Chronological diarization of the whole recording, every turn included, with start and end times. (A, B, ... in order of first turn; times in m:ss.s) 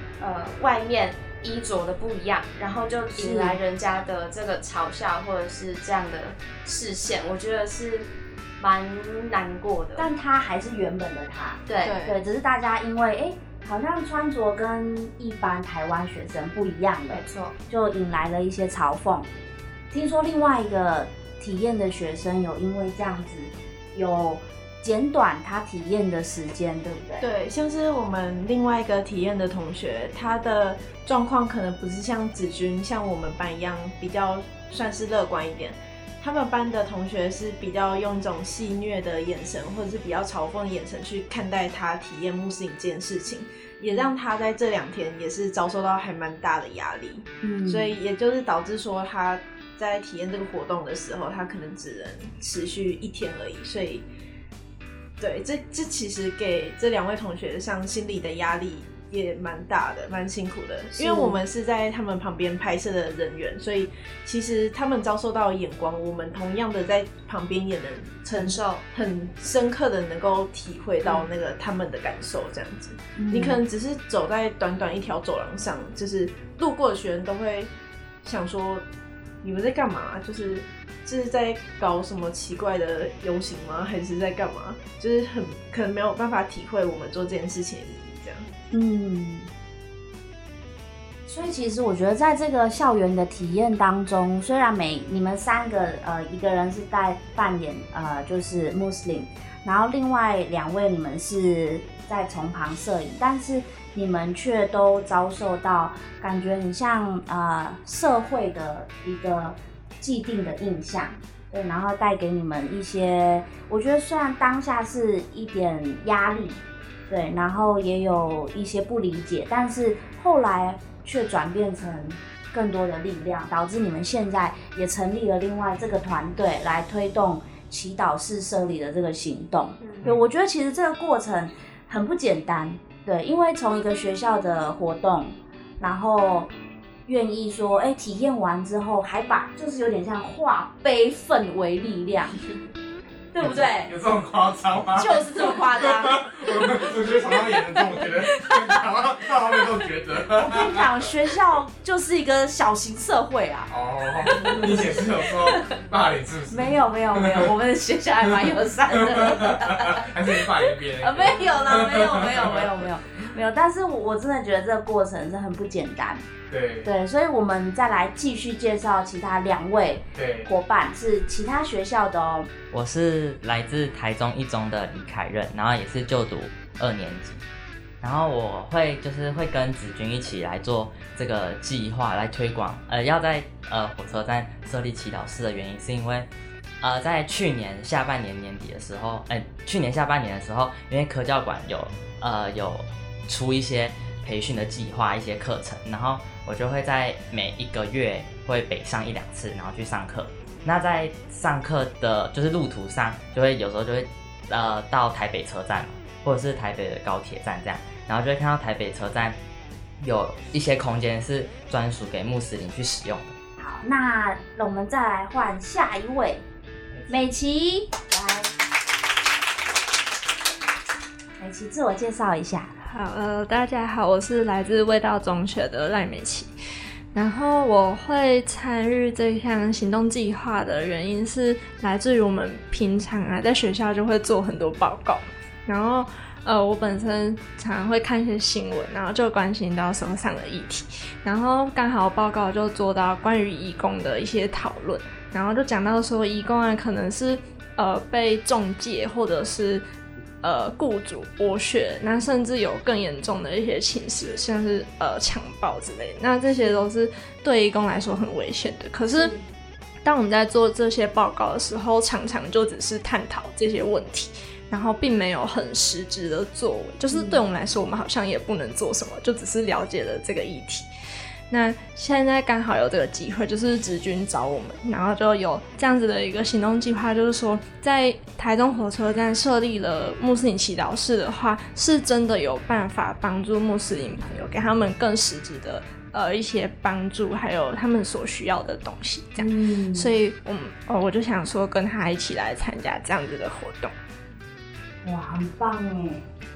0:00.2-0:10.1 A
0:03.2-0:03.6 B
0:10.0-0:19.3 B
0:11.7-0:12.2 A
0:17.1-0:17.5 A
0:19.9-0:27.3 B
0:27.2-0:54.0 C
0:47.4-0:47.9 B
0:55.2-1:17.7 C
1:01.0-1:01.4 B
1:08.4-1:08.8 A
1:13.2-1:13.6 B
1:18.2-1:18.8 C
1:19.4-1:28.5 C
1:28.7-1:29.5 B
1:31.3-2:16.5 B
2:17.1-2:22.4 B
2:23.3-2:23.9 B
2:23.4-2:31.0 D
2:25.0-2:28.7 B
2:30.3-2:35.7 B
2:33.7-2:37.5 D
2:36.5-2:40.5 B
2:38.9-2:42.8 D
2:41.0-2:46.2 B
2:46.5-2:46.9 D
2:46.8-2:52.5 B
2:50.2-2:50.5 D
2:52.7-2:57.4 E
2:58.0-3:06.3 E
3:06.8-3:29.4 E
3:30.0-3:33.4 E
3:33.6-3:36.4 B
3:37.1-3:38.5 B
3:41.4-3:42.7 B
3:42.8-3:46.5 F
3:47.1-4:09.8 F
4:10.4-4:19.3 F
4:19.1-4:19.4 B
4:20.0-4:30.9 F
4:27.1-4:27.4 B
4:31.5-4:53.9 F
4:49.4-4:50.1 B
4:55.0-4:56.2 B